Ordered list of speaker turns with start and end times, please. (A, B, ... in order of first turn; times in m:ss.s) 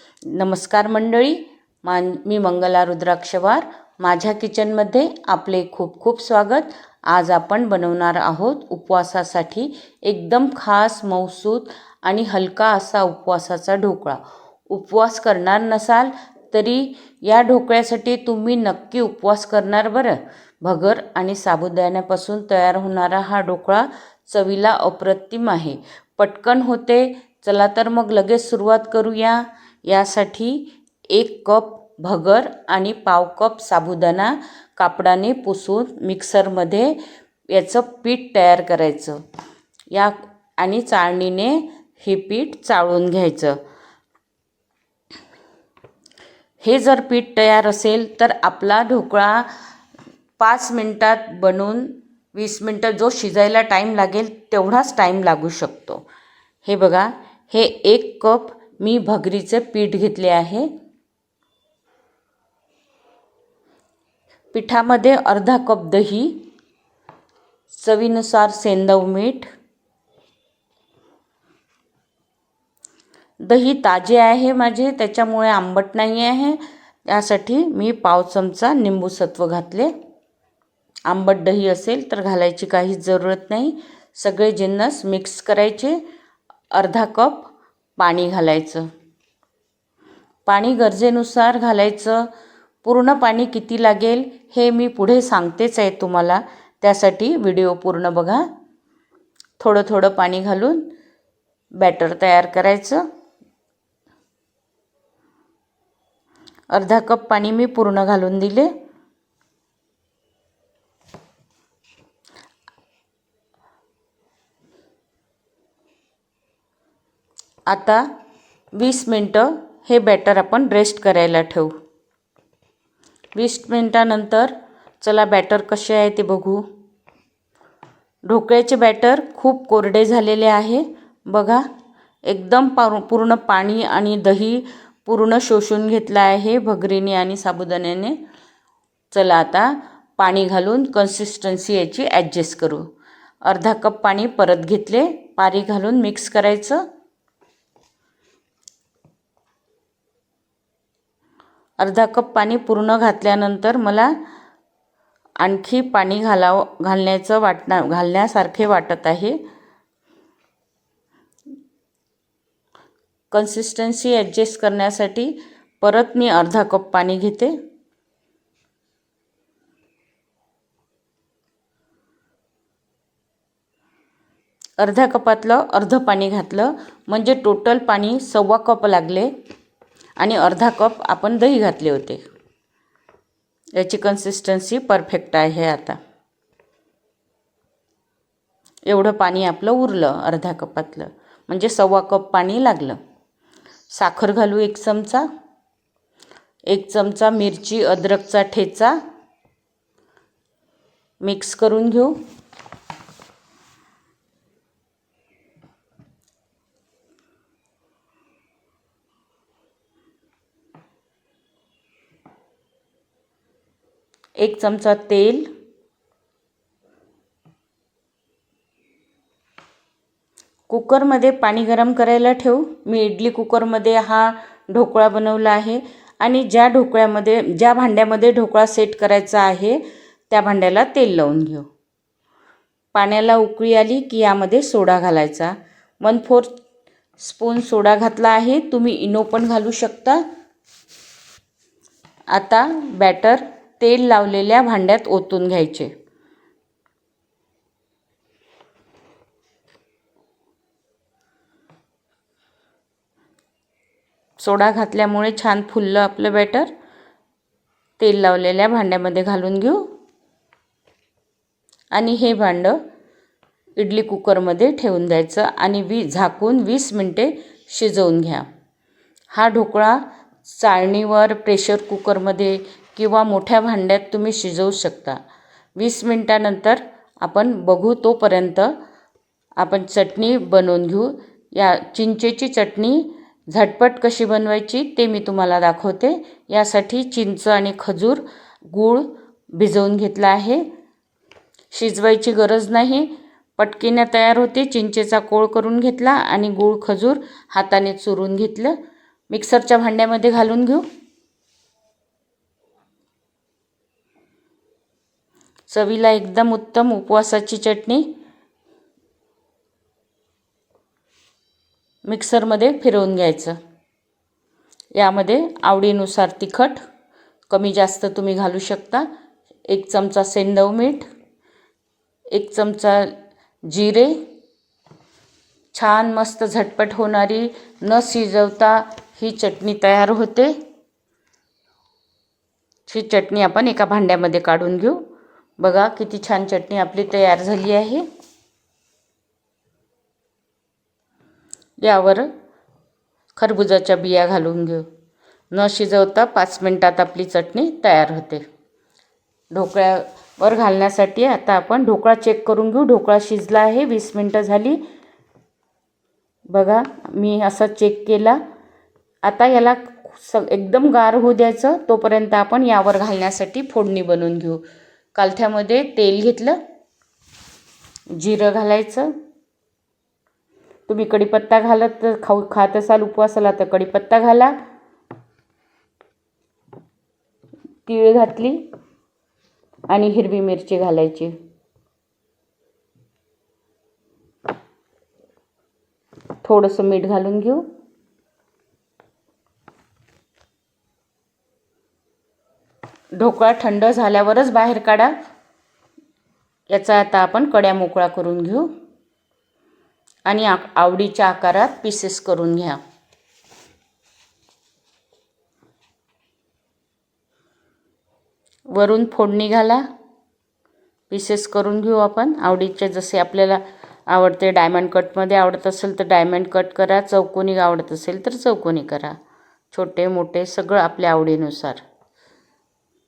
0:00.3-0:37.0 A
0:37.5-0:39.2 A
0:39.9-0:43.6 A
0:46.6-0:49.5 A
0:50.4-0:56.1 A
0:56.6-1:00.7 A
1:04.5-1:06.4 A
1:07.7-1:09.5 A
1:13.4-1:19.9 A
1:21.1-1:26.0 A
1:26.7-1:28.9 A
1:30.5-1:32.3 A
1:32.8-1:38.5 A
1:39.6-1:40.9 A
1:41.8-1:43.0 A
1:46.7-1:48.7 A
1:57.7-1:58.1 A
1:58.8-2:01.8 A
2:03.4-2:06.6 A
2:08.3-2:11.7 A
2:12.3-2:18.2 A
2:19.1-2:22.9 A
2:23.4-2:26.8 A
2:31.8-2:34.2 A
2:35.4-2:39.4 A
2:43.3-2:47.5 A
2:54.8-2:59.3 A
3:00.2-3:02.2 A
3:03.8-3:06.0 A
3:08.9-3:13.0 A
3:13.9-3:15.3 A
3:16.7-3:19.0 A
3:21.2-3:22.2 A
3:34.4-3:35.5 A
3:40.7-3:51.7 A
3:52.9-3:56.6 A
3:57.2-4:00.2 A
4:02.3-4:05.9 A
4:14.4-4:16.7 A
4:18.0-4:19.9 A
4:21.9-4:22.8 A
4:23.8-4:28.5 A
4:29.3-4:35.2 A
4:35.8-4:38.7 A
4:39.6-4:50.6 A
4:51.7-4:58.8 A
4:59.3-5:00.9 A
5:05.7-5:08.1 A
5:12.0-5:13.6 A
5:14.9-5:16.8 A
5:17.5-5:19.1 A
5:19.7-5:21.1 A
5:22.3-5:23.2 A
5:23.7-5:24.2 A
5:25.7-5:30.5 A
5:32.9-5:35.0 A
5:35.6-5:38.1 A
5:41.8-5:42.3 A
5:43.4-5:44.9 A
5:45.5-5:48.4 A
5:49.5-5:54.8 A
5:56.5-5:58.4 A
5:59.2-6:04.6 A
6:05.2-6:06.6 A
6:08.1-6:09.1 A
6:10.9-6:14.6 A
6:17.9-6:18.6 A
6:19.9-6:21.3 A
6:26.4-6:27.7 A
6:33.2-6:35.1 A
6:36.7-6:38.7 A
6:40.3-6:42.8 A
6:48.7-6:49.8 A
6:51.1-6:59.2 A
6:59.7-7:01.8 A